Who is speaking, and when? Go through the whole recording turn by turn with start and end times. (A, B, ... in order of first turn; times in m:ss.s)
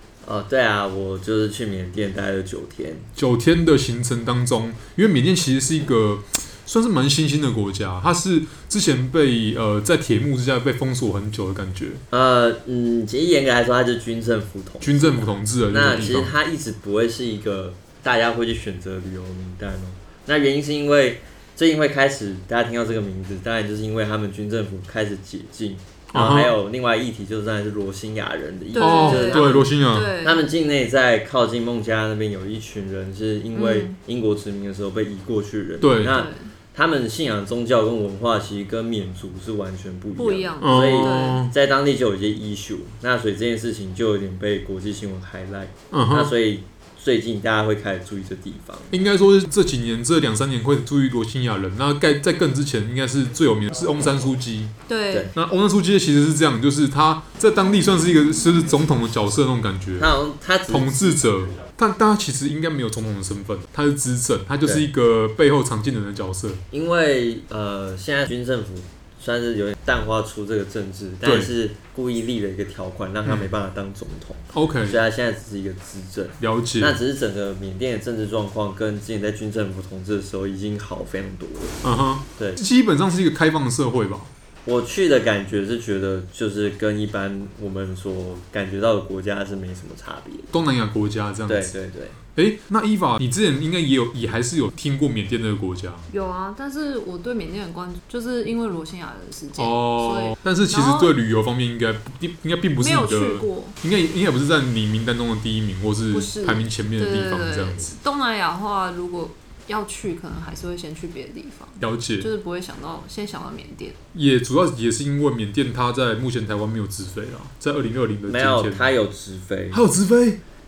0:00.2-0:03.1 A
0:03.2-0:12.0 B
0:12.1-0:29.7 A
0:14.8-0:16.3 B
0:26.1-0:26.5 B
0:28.7-0:30.5 C
0:28.8-0:30.1 B
0:30.2-0:48.9 A
0:33.5-0:34.0 C
0:35.8-0:36.2 B
0:36.0-0:36.5 C
0:40.2-0:41.4 C
0:40.6-0:41.5 B
0:45.9-0:46.3 B
0:48.9-0:54.7 B
0:54.9-0:55.3 C
0:55.3-1:00.1 B
1:00.0-1:01.2 A
1:00.7-1:06.6 B
1:06.7-1:21.8 A
1:11.2-1:11.5 B
1:13.2-1:13.5 B
1:14.5-1:15.0 B
1:16.4-1:17.0 B
1:21.8-1:24.3 B
1:24.6-1:30.5 A
1:30.5-1:31.7 B
1:31.5-1:32.2 A
1:32.3-1:36.1 B
1:36.1-1:41.1 C
1:39.6-1:47.9 B
1:42.8-1:43.8 C
1:46.1-1:54.0 C
1:51.8-1:52.3 B
1:54.1-1:58.9 B
1:58.3-1:59.8 A
1:59.7-2:00.4 B